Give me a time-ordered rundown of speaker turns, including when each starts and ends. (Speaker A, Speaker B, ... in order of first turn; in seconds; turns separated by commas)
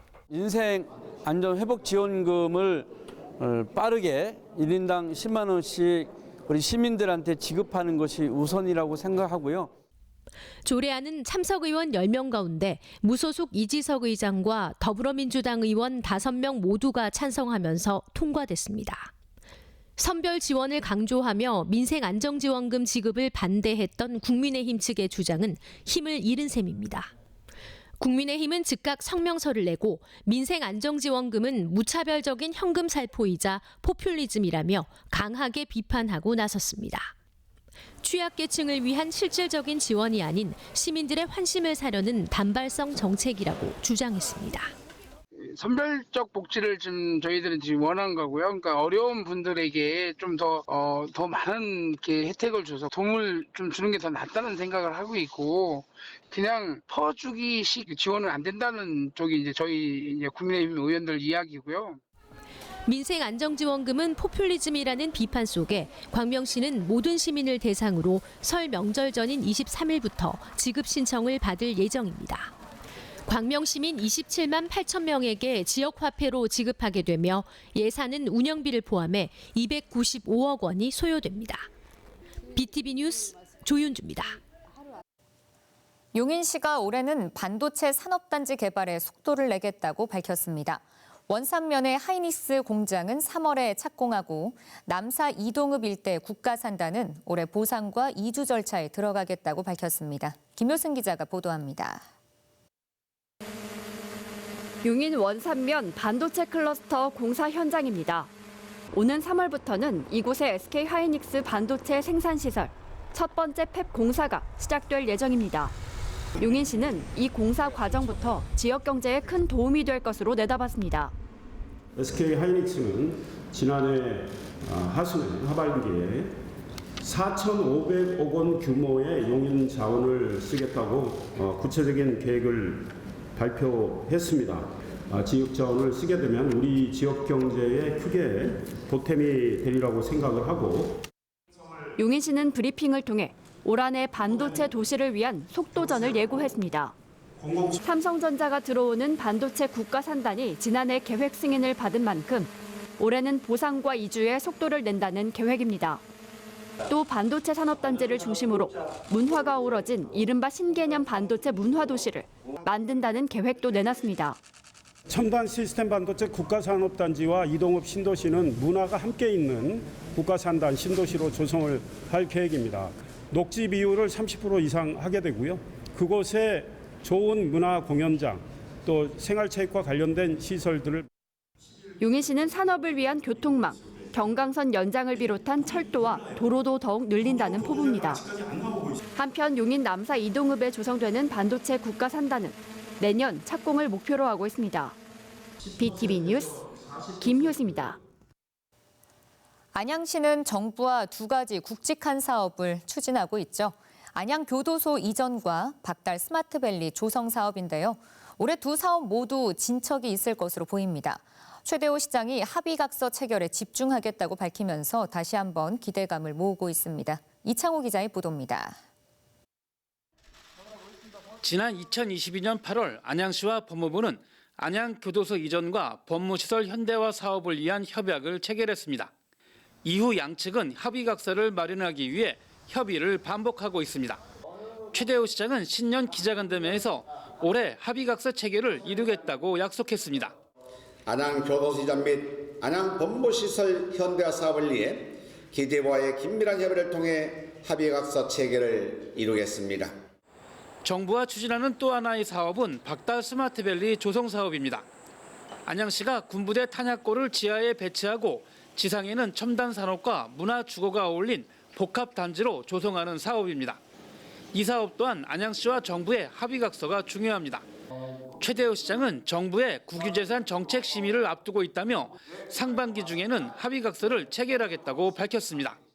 Speaker A: 0.3-9.7, Speaker B: 10.7-19.1, Speaker B: 20.0-27.1, Speaker B: 28.0-37.1, Speaker B: 38.0-44.7, Speaker C: 45.4-62.0, Speaker B: 62.9-72.5, Speaker B: 73.3-81.7, Speaker B: 82.5-84.4, Speaker D: 86.1-102.0, Speaker E: 104.8-108.3, Speaker E: 108.9-115.8, Speaker E: 116.4-121.1, Speaker F: 122.0-126.3, Speaker F: 127.0-132.8, Speaker F: 133.4-141.0, Speaker E: 142.0-146.9, Speaker F: 147.4-147.8, Speaker E: 147.8-156.0, Speaker E: 156.9-164.4, Speaker F: 165.1-181.1, Speaker E: 182.0-188.2, Speaker F: 188.3-188.9, Speaker E: 189.2-195.0, Speaker E: 195.8-196.6, Speaker E: 197.2-198.0, Speaker D: 199.7-218.8, Speaker G: 221.4-229.1, Speaker G: 229.8-234.2, Speaker G: 234.9-240.3, Speaker H: 241.1-249.9, Speaker G: 250.8-254.9, Speaker G: 255.7-263.8, Speaker G: 264.5-267.6, Speaker G: 268.4-275.8